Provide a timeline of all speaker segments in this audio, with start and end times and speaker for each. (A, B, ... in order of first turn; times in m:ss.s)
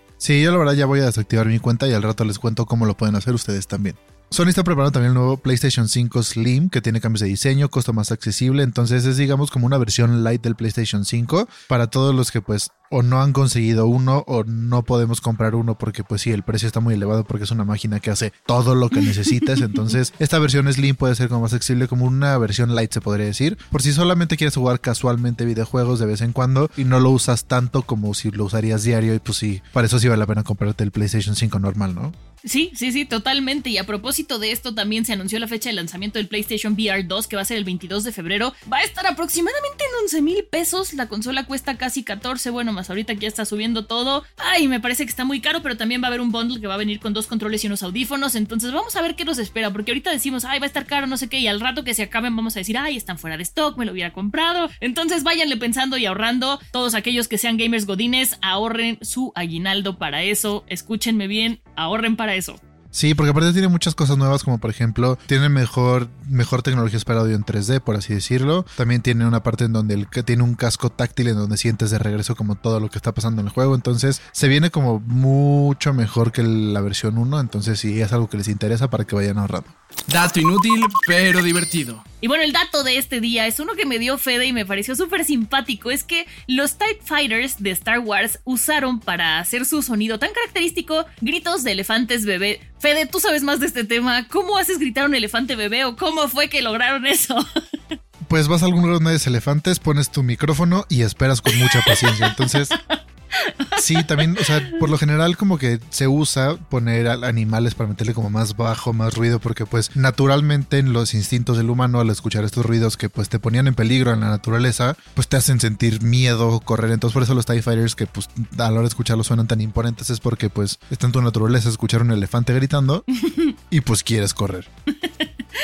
0:00.2-0:32.2 A
0:32.4-1:02.6 B
1:02.9-1:19.7 A
1:20.1-1:22.0 C
1:22.2-1:37.4 B
1:38.3-1:42.8 A
1:41.5-1:44.8 B
1:43.8-2:03.1 A
2:03.2-2:03.6 B
2:03.7-2:04.7 A
2:05.0-2:05.3 B